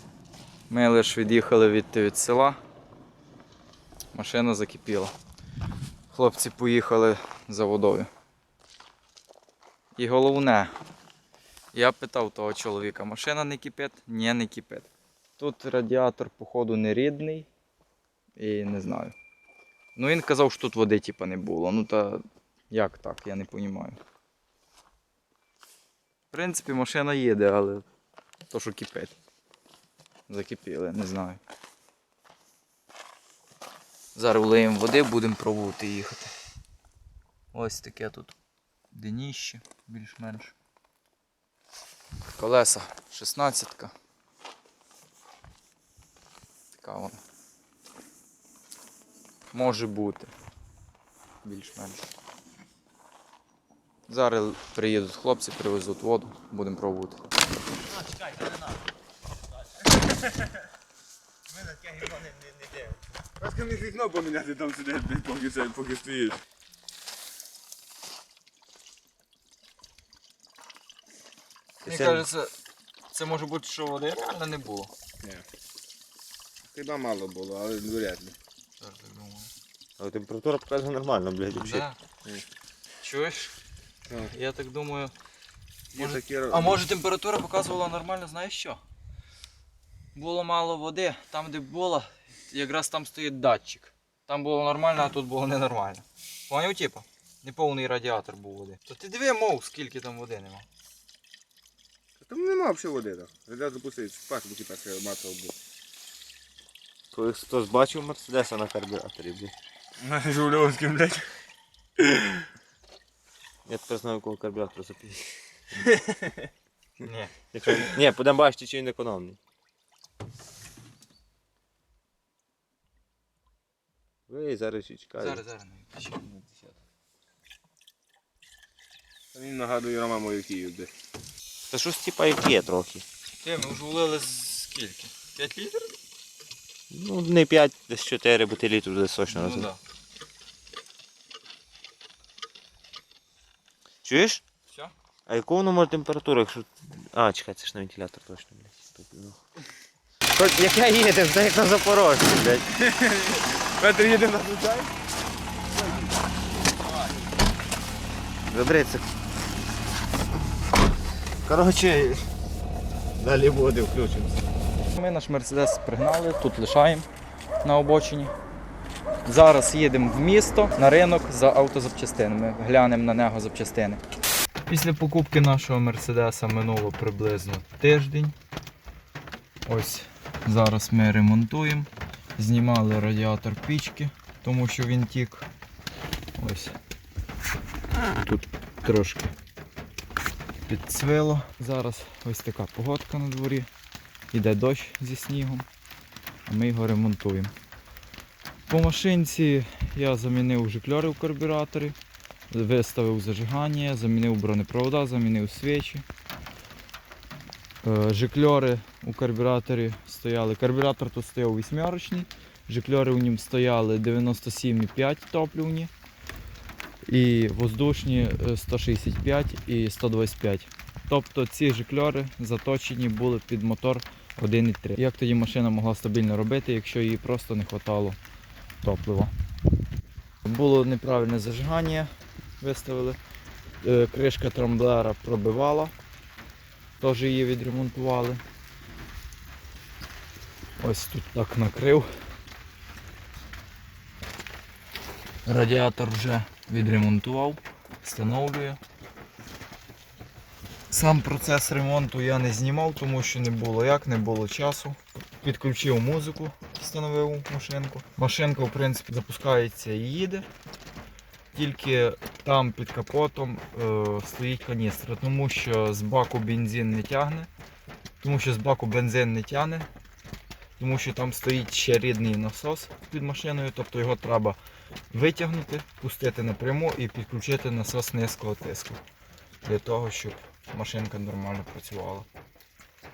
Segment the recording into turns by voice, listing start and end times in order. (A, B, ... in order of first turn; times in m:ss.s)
0:00.7-0:02.6 A
0:04.1-0:05.1 A
0:06.1-0:08.1 A
0:10.0-0:10.7 A
0:11.7-0:17.5 A
0:18.4-0:19.2 A
0:20.0-0:24.0 A
0:26.3-0:27.9 A
0:28.5-0:29.2 A
0:30.3-0:31.4 A
0:34.2-0:36.3 A
0:37.5-0:38.4 A
0:38.9-0:40.6 A
0:42.3-0:43.9 A
0:46.7-0:47.2 A
0:49.5-0:50.3 A
0:51.4-0:52.1 A
0:54.1-0:57.2 A
0:58.0-0:58.6 B
1:01.5-1:03.0 B
1:03.4-1:06.4 C
1:11.8-1:12.3 B
1:11.9-1:12.5 A
1:13.1-1:14.9 A
1:16.7-1:18.4 C
1:18.8-1:19.5 A
1:20.0-1:21.9 B
1:21.6-1:22.0 A
1:23.0-1:23.5 A
1:24.2-1:25.1 A
1:26.0-1:26.8 B
1:26.0-1:28.8 A
1:30.2-1:40.7 A
1:42.2-1:45.5 C
1:47.1-1:49.5 B
1:50.0-1:51.3 C
1:53.7-1:55.3 B
1:57.0-1:57.4 A
1:57.5-1:59.4 B
2:04.3-2:05.4 B
2:05.2-2:06.2 A
2:06.2-2:06.7 C
2:09.3-2:10.9 C
2:11.7-2:13.0 B
2:13.4-2:16.0 A
2:16.9-2:19.7 B
2:19.3-2:19.8 A
2:24.0-2:24.4 B
2:25.3-2:29.4 B
2:30.3-2:32.8 B
2:32.8-2:34.9 C
2:34.0-2:34.7 B
2:38.5-2:39.1 B
2:41.4-2:42.3 B
2:43.2-2:44.5 B
2:44.9-2:47.1 A
2:47.6-2:48.3 A
2:49.2-2:54.0 A
2:54.7-2:58.4 A
2:59.7-3:05.5 A
3:06.4-3:06.8 A
3:08.1-3:09.3 A
3:10.7-3:13.7 A
3:14.3-3:15.7 A
3:16.5-3:17.5 A
3:18.7-3:22.0 A
3:22.5-3:26.0 A
3:27.8-3:35.9 A
3:37.1-3:48.2 A
3:48.8-3:49.3 A
3:50.4-3:53.2 A
3:53.8-3:55.9 A
3:57.0-3:58.4 A
4:00.8-4:02.1 A
4:05.5-4:08.8 A
4:10.9-4:20.5 A
4:21.5-4:27.5 A
4:28.2-4:29.9 A
4:30.8-4:34.6 A
4:35.1-4:39.0 A
4:39.6-4:42.3 A